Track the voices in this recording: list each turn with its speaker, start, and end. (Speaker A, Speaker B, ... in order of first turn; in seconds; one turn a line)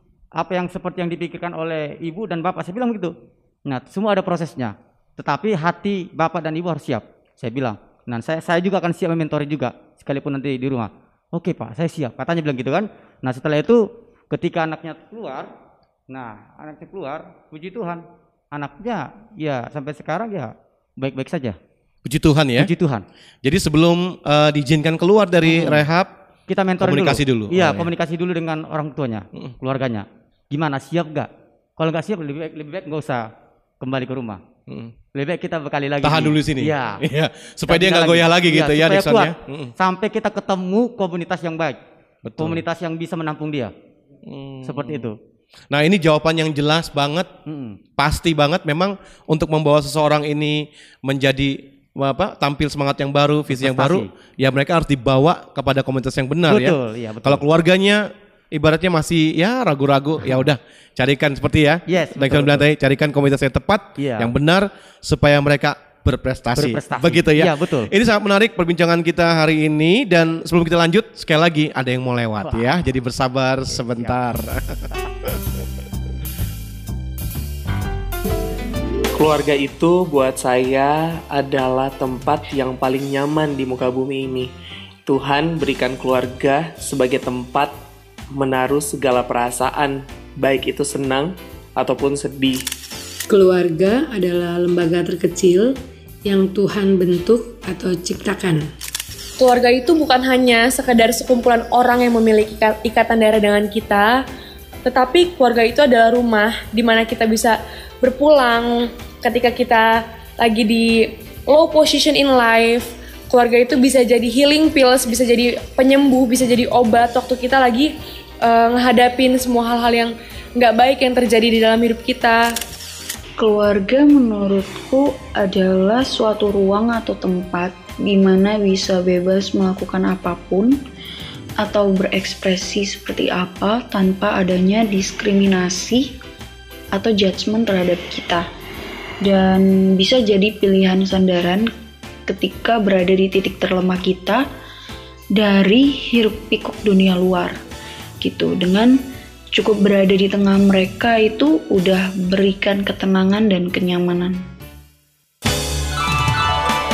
Speaker A: 0.4-3.1
Speaker A: 3.7-15.5
Speaker A: 16.1-18.0
Speaker A: 18.5-21.6
Speaker B: 22.1-22.7
Speaker A: 22.6-23.0
Speaker B: 23.4-26.1
Speaker A: 25.4-25.8
Speaker A: 26.5-33.3
Speaker B: 26.8-27.9
Speaker A: 33.8-34.4
Speaker B: 34.7-34.9
Speaker A: 35.1-37.0
Speaker B: 36.0-39.7
Speaker A: 37.7-41.8
Speaker B: 42.2-42.6
Speaker A: 42.4-43.7
Speaker B: 44.2-45.0
Speaker A: 44.6-45.1
Speaker B: 45.7-47.3
Speaker A: 47.5-47.8
Speaker B: 48.0-75.3
Speaker A: 53.5-54.1
Speaker A: 56.5-57.4
Speaker A: 61.9-62.6
Speaker A: 64.0-64.3
Speaker A: 66.5-67.9
Speaker A: 72.4-72.8
Speaker A: 73.7-74.2
Speaker C: 79.1-84.5
Speaker C: 85.0-87.7
Speaker C: 88.3-92.6
Speaker D: 93.3-98.7
Speaker E: 99.4-104.2
Speaker E: 104.8-117.9
Speaker E: 118.4-122.5
Speaker F: 123.4-130.8
Speaker F: 131.6-136.1
Speaker F: 136.9-138.4
Speaker F: 139.2-141.7
Speaker F: 142.3-144.4
Speaker F: 145.3-147.5
Speaker F: 148.2-149.0
Speaker F: 149.5-154.4